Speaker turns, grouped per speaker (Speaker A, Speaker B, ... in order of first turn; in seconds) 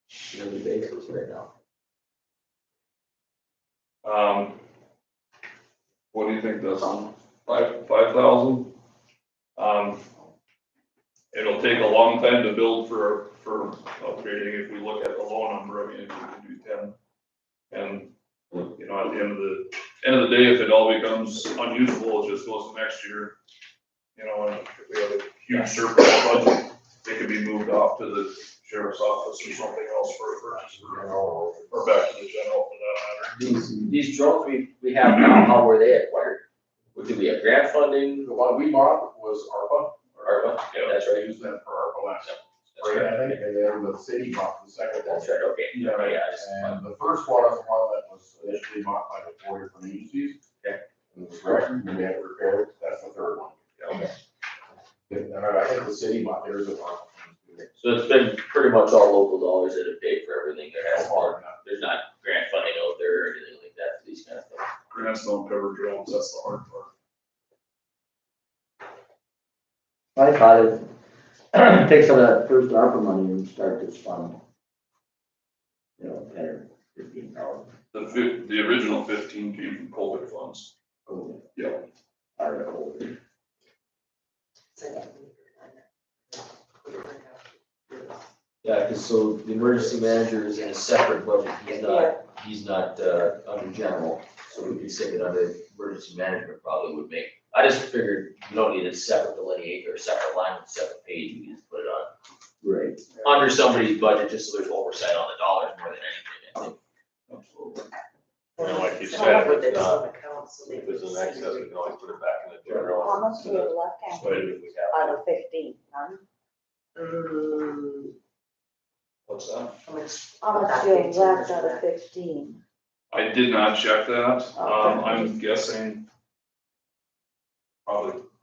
Speaker A: 0.3-1.5, 33.6-36.4, 36.9-38.3, 40.2-41.4, 42.2-43.4, 45.0-46.8, 57.8-64.7, 88.6-102.1, 103.2-106.8
Speaker B: 4.0-4.6, 6.1-8.7, 9.6-10.0, 11.3-16.9, 17.7-18.1, 18.7-23.3, 24.1-31.1, 31.7-33.5, 40.7-41.0, 45.7-46.2, 53.8-54.1, 64.9-66.9, 77.9-80.7, 81.5-81.8, 107.3-107.9, 119.3-119.7, 123.1-126.0, 127.8-128.2
Speaker C: 30.8-31.9, 38.2-40.0, 41.1-45.3, 46.3-50.4, 51.1-53.6, 55.1-57.7, 60.8-61.6
Speaker D: 70.2-70.8, 71.5-74.4, 76.0-77.7, 81.1-81.3, 82.4-83.1, 102.6-103.0
Speaker E: 84.7-88.2, 91.8-92.1, 108.6-111.8, 116.9-118.1, 119.8-121.8
Speaker F: 108.6-110.0, 110.7-115.2
Speaker G: 109.1-109.5, 112.8-116.2, 120.4-122.6, 124.6-125.3